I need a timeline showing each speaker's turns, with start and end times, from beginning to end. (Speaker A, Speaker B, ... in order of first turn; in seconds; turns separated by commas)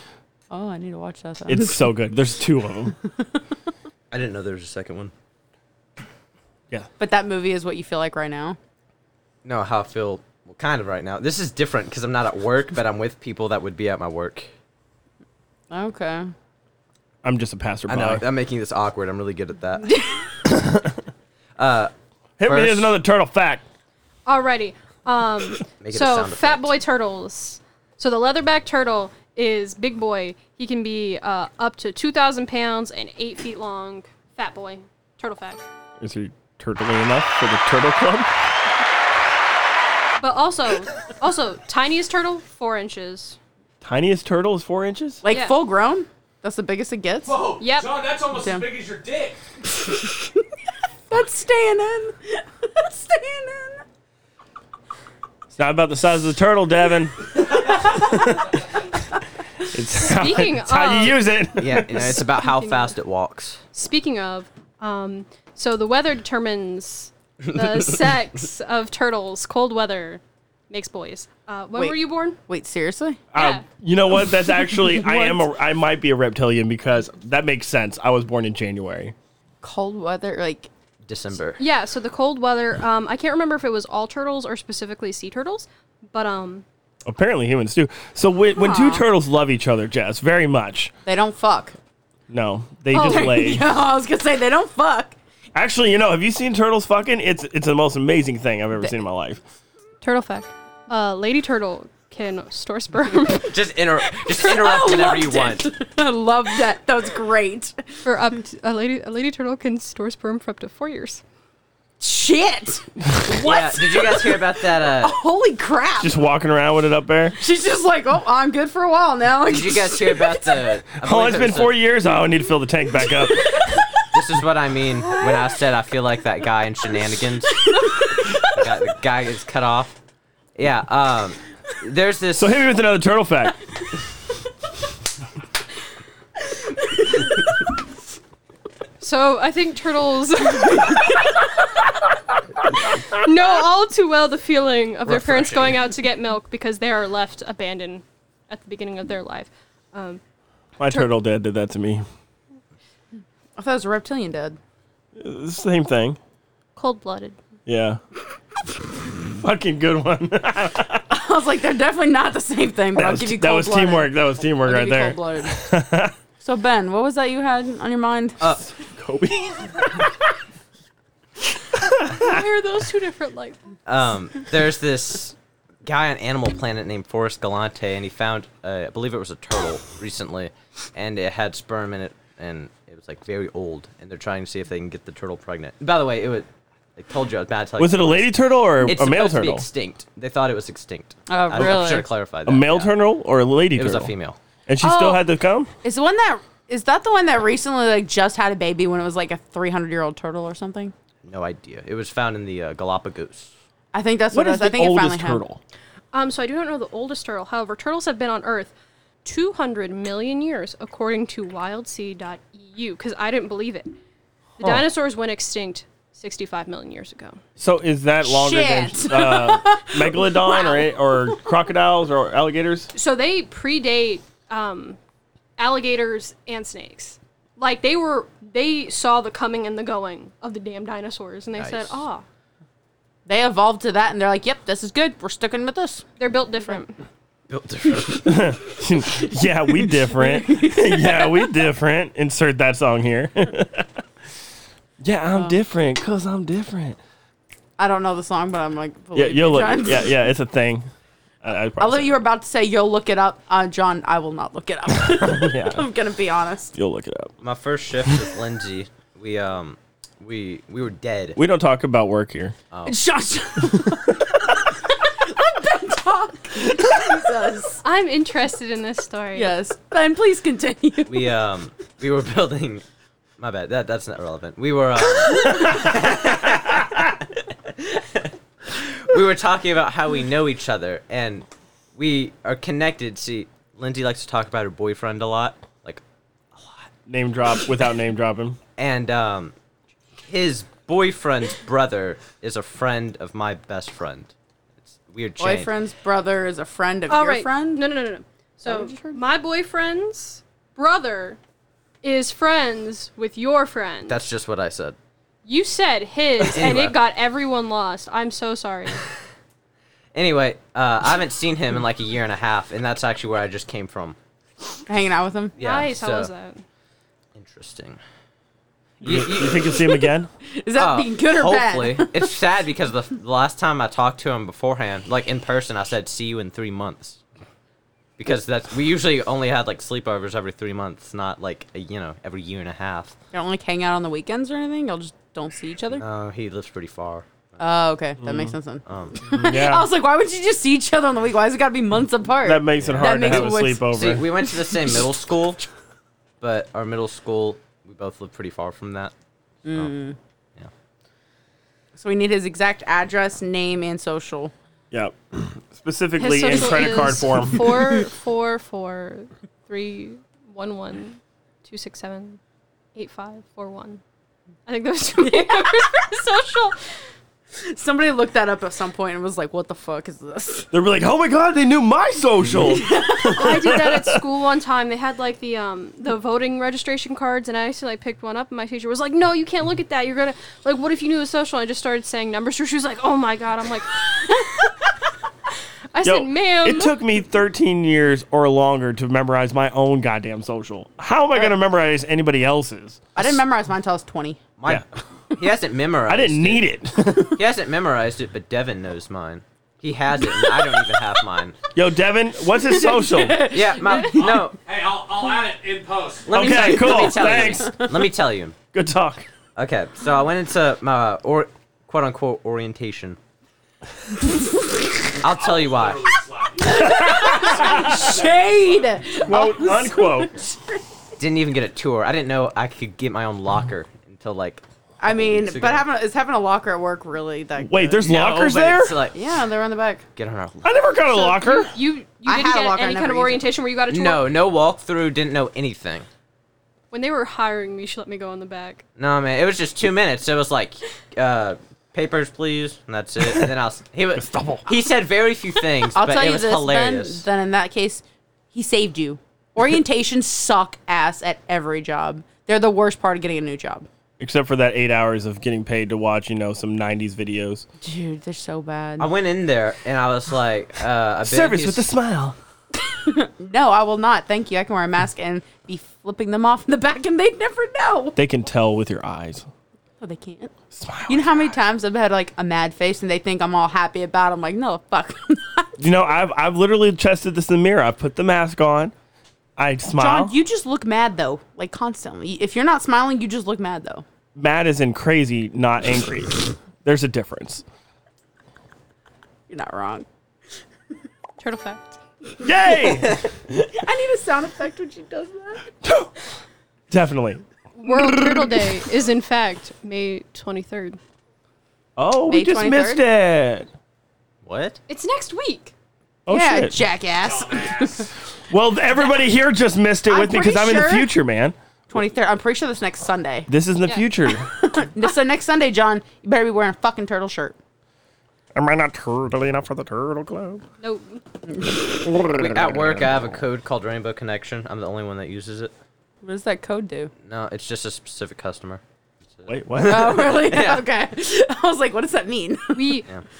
Speaker A: 0.5-1.9, Speaker B: 1.4-3.0, Speaker C: 4.1-5.1, Speaker A: 7.0-8.6, Speaker C: 9.4-14.5, Speaker A: 15.7-16.3, Speaker B: 17.2-18.2, Speaker C: 17.9-19.9, Speaker A: 19.9-20.2, Speaker B: 20.5-21.0, Speaker C: 21.6-21.9, Speaker B: 22.4-23.6, Speaker C: 22.4-23.0, Speaker D: 24.2-35.6, Speaker C: 25.8-26.7, Speaker B: 36.0-38.3, Speaker D: 40.2-43.4, Speaker B: 43.8-45.2, Speaker A: 45.2-47.5, Speaker D: 45.3-45.6, Speaker E: 47.2-49.4, Speaker D: 47.6-47.9, Speaker A: 48.3-48.7, Speaker A: 49.7-50.3, Speaker A: 51.1-53.8, Speaker B: 55.5-58.5, Speaker B: 59.6-62.2, Speaker D: 60.0-61.2, Speaker C: 61.6-63.6, Speaker D: 61.8-62.9, Speaker D: 63.7-72.4, Speaker A: 71.8-73.2, Speaker B: 73.3-79.1, Speaker D: 73.3-73.6, Speaker A: 74.7-75.4, Speaker A: 79.6-80.7, Speaker C: 81.0-81.6, Speaker D: 81.6-86.6, Speaker B: 87.0-90.9, Speaker A: 88.5-89.0, Speaker A: 91.0-91.8, Speaker B: 92.3-93.7, Speaker D: 92.9-93.5, Speaker A: 92.9-95.1, Speaker B: 95.5-99.4, Speaker D: 100.0-103.5, Speaker C: 103.5-105.7, Speaker A: 104.3-107.8, Speaker D: 108.0-111.2, Speaker A: 112.0-116.2, Speaker C: 113.4-115.2, Speaker B: 116.0-117.4, Speaker A: 117.4-120.7, Speaker C: 119.5-121.8, Speaker B: 121.0-123.8, Speaker C: 124.1-127.7, Speaker A: 125.1-125.5, Speaker C: 128.4-130.0, Speaker C: 130.6-132.6, Speaker B: 132.3-133.6, Speaker D: 139.0-141.4, Speaker D: 143.1-150.2, Speaker C: 145.1-145.8, Speaker B: 150.8-152.0, Speaker A: 153.6-154.6, Speaker B: 155.2-156.2, Speaker D: 156.8-157.4, Speaker B: 157.7-158.0, Speaker B: 159.2-161.1, Speaker A: 161.1-165.6, Speaker B: 162.9-166.1, Speaker A: 166.4-168.4, Speaker B: 168.7-170.0, Speaker B: 171.8-172.4, Speaker D: 172.0-173.6, Speaker C: 173.8-192.9, Speaker B: 187.8-189.7, Speaker A: 191.3-192.1, Speaker B: 191.6-191.9, Speaker B: 192.4-194.1, Speaker C: 193.7-194.4, Speaker B: 194.7-195.7, Speaker A: 194.8-195.2, Speaker A: 195.8-200.9, Speaker C: 201.2-203.5, Speaker A: 203.9-205.4, Speaker B: 204.3-205.6, Speaker D: 206.1-208.7, Speaker D: 209.2-213.9, Speaker B: 214.6-214.9, Speaker D: 214.6-217.4, Speaker B: 217.6-222.9, Speaker A: 218.2-220.9, Speaker D: 222.9-225.0, Speaker D: 225.6-232.2, Speaker C: 231.6-232.0, Speaker A: 233.2-236.1, Speaker D: 236.2-237.0, Speaker C: 237.5-238.5, Speaker B: 238.2-244.0, Speaker A: 240.0-241.5, Speaker B: 245.0-247.0, Speaker A: 245.3-245.6, Speaker A: 247.8-250.2, Speaker B: 249.1-250.9, Speaker B: 251.4-252.2, Speaker A: 251.8-256.7, Speaker B: 255.1-255.9, Speaker B: 256.7-257.3, Speaker C: 257.4-261.4, Speaker B: 261.4-262.5, Speaker C: 262.7-262.9, Speaker A: 262.8-267.8, Speaker B: 263.7-264.1, Speaker D: 267.8-269.5, Speaker A: 269.3-271.3, Speaker C: 271.1-272.8, Speaker C: 273.4-286.0, Speaker C: 286.5-286.9, Speaker B: 287.1-288.6, Speaker C: 288.8-289.5, Speaker C: 290.2-294.3, Speaker C: 294.8-295.7, Speaker A: 295.4-297.8, Speaker D: 297.1-301.4, Speaker A: 298.6-299.2, Speaker D: 302.0-304.2, Speaker C: 304.1-304.9, Speaker D: 305.4-309.0, Speaker C: 306.5-306.9, Speaker C: 310.1-314.2, Speaker A: 314.9-315.6, Speaker C: 315.6-316.3, Speaker D: 315.6-316.6, Speaker C: 317.3-318.0, Speaker C: 319.0-319.8, Speaker B: 319.0-320.3, Speaker A: 320.5-322.3, Speaker C: 320.8-327.2, Speaker C: 328.2-333.1, Speaker A: 333.3-336.0, Speaker C: 336.0-337.2, Speaker A: 337.6-344.2, Speaker B: 338.2-338.5, Speaker C: 338.9-339.2, Speaker B: 339.3-339.9, Speaker B: 342.4-344.2, Speaker C: 342.8-345.6, Speaker C: 346.4-349.1, Speaker A: 349.6-350.2, Speaker A: 351.9-354.5, Speaker B: 354.9-357.9, Speaker D: 356.2-362.4, Speaker D: 362.9-364.0, Speaker D: 364.6-366.8, Speaker A: 365.2-366.0, Speaker A: 367.5-370.7, Speaker B: 370.7-374.2, Speaker A: 372.6-373.5, Speaker D: 373.3-384.7, Speaker D: 385.9-387.0, Speaker B: 386.0-393.2, Speaker A: 393.1-394.4, Speaker C: 394.6-396.6, Speaker B: 396.1-397.4, Speaker C: 397.3-401.6, Speaker B: 401.7-403.5, Speaker A: 402.6-404.3, Speaker C: 403.5-404.6, Speaker E: 404.1-406.3, Speaker C: 406.2-408.6, Speaker B: 406.3-407.8, Speaker A: 406.7-407.9, Speaker B: 408.7-409.2, Speaker C: 409.6-413.2, Speaker C: 415.2-416.1, Speaker E: 415.4-418.9, Speaker A: 416.6-420.8, Speaker B: 416.8-418.1, Speaker B: 419.2-420.3, Speaker C: 421.2-425.8, Speaker A: 425.0-428.1, Speaker B: 427.6-429.0, Speaker C: 428.0-429.2, Speaker A: 429.1-430.0, Speaker C: 430.1-430.6, Speaker B: 430.6-431.7, Speaker D: 431.1-434.3, Speaker A: 432.2-433.4, Speaker C: 433.9-436.1, Speaker D: 436.9-438.8, Speaker C: 439.0-447.2, Speaker B: 444.3-444.6, Speaker A: 445.9-453.9, Speaker B: 454.2-457.6, Speaker A: 457.8-459.1, Speaker C: 459.0-461.9, Speaker B: 461.2-462.4, Speaker A: 463.0-468.2, Speaker B: 468.2-469.5, Speaker A: 470.0-470.5, Speaker B: 470.7-471.6, Speaker A: 471.1-475.8, Speaker B: 475.8-478.9, Speaker B: 479.6-480.3, Speaker A: 480.0-484.0, Speaker B: 484.3-487.6, Speaker A: 489.5-490.1, Speaker D: 491.4-491.8, Speaker B: 492.4-493.5, Speaker A: 493.8-495.7, Speaker B: 495.8-496.1, Speaker B: 496.9-498.6, Speaker D: 497.8-501.0, Speaker B: 501.9-503.7, Speaker A: 502.3-503.0, Speaker C: 504.4-504.8, Speaker D: 504.9-505.7, Speaker B: 506.2-506.9, Speaker A: 506.3-508.1, Speaker B: 508.5-511.6, Speaker A: 510.1-511.1, Speaker A: 511.9-513.5, Speaker B: 513.5-514.5, Speaker A: 514.4-517.5, Speaker B: 518.5-520.6, Speaker D: 520.8-521.2, Speaker A: 521.5-521.8, Speaker B: 522.0-523.2, Speaker C: 522.4-525.7, Speaker A: 526.2-527.1, Speaker C: 527.2-528.8, Speaker C: 529.4-530.8, Speaker B: 529.5-530.3, Speaker A: 529.8-533.0, Speaker D: 532.7-533.1